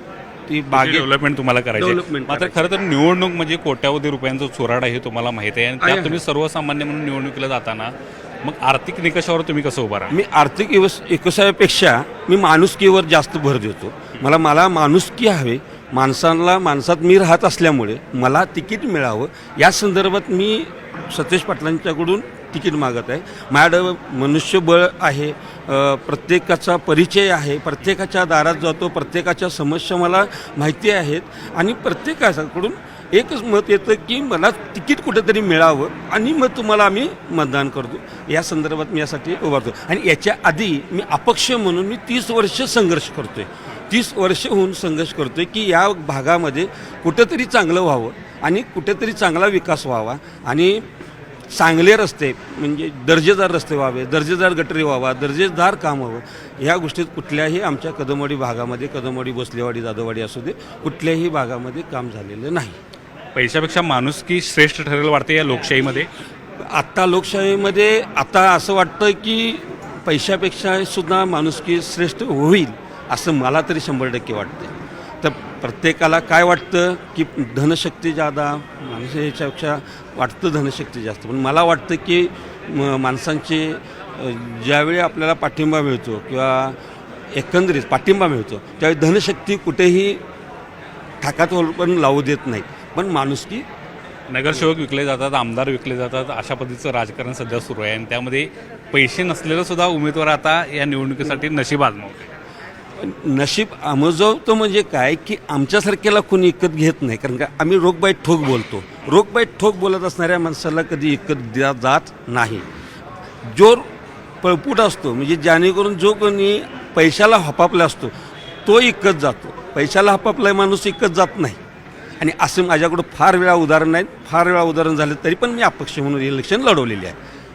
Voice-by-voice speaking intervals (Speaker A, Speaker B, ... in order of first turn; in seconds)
Speaker A: 0.5-1.1, 1.8-2.6, 5.8-6.2, 10.1-50.9, 51.5-62.8, 66.6-86.8, 87.3-90.2, 91.2-93.7, 103.0-112.7, 113.4-113.9, 114.4-118.1, 118.7-121.6, 122.2-127.2
Speaker B: 0.7-10.2, 63.4-66.1, 94.3-102.3